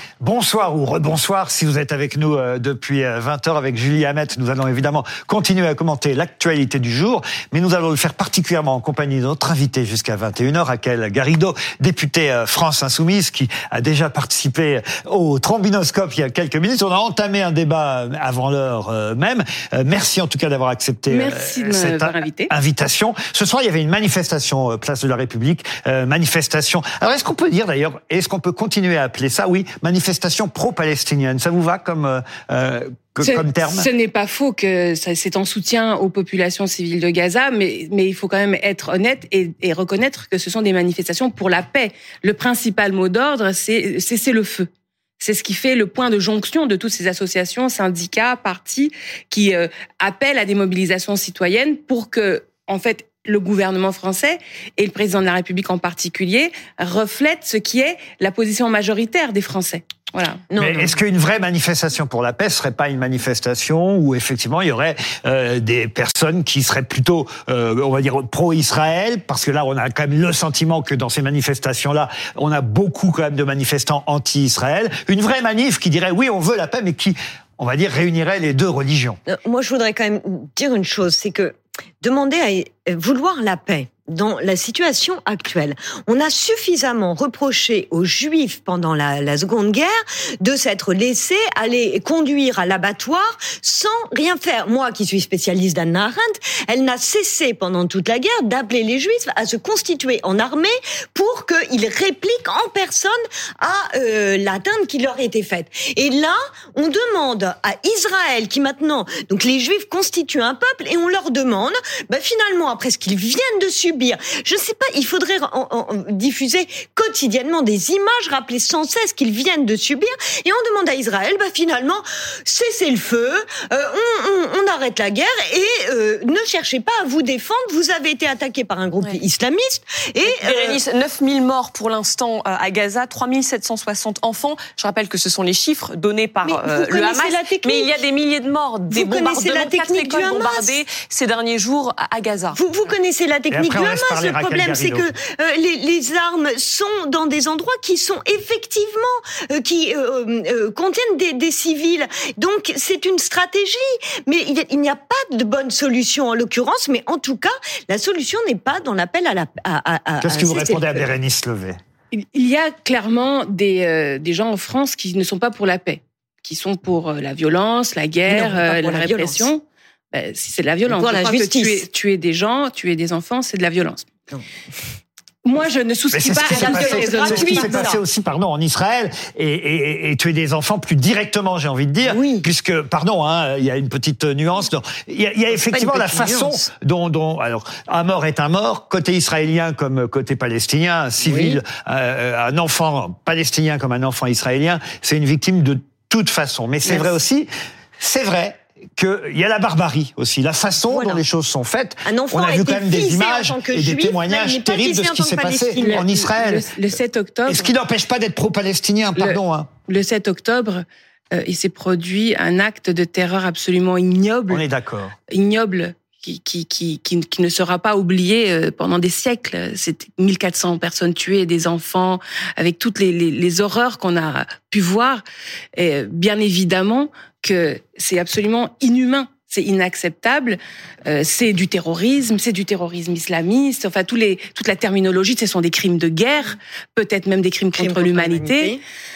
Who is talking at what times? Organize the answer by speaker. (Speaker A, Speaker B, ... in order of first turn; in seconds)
Speaker A: 0.2-33.9, 60.5-79.2, 143.5-145.1, 160.2-161.8, 176.1-206.7, 207.5-209.7, 214.5-215.1
Speaker B: 21.1-22.5, 33.2-60.5, 162.1-174.1, 175.4-177.9, 205.8-207.7, 209.2-214.6, 215.3-225.2, 225.8-238.8
Speaker C: 60.5-61.0, 79.2-130.8, 136.4-138.0, 138.9-140.8, 142.5-161.1, 168.2-169.5, 170.9-171.8, 176.4-178.0, 182.1-182.4, 185.5-186.7, 191.2-191.6, 196.8-197.1, 200.8-201.2, 202.1-206.2, 237.7-238.8
Speaker D: 130.3-142.6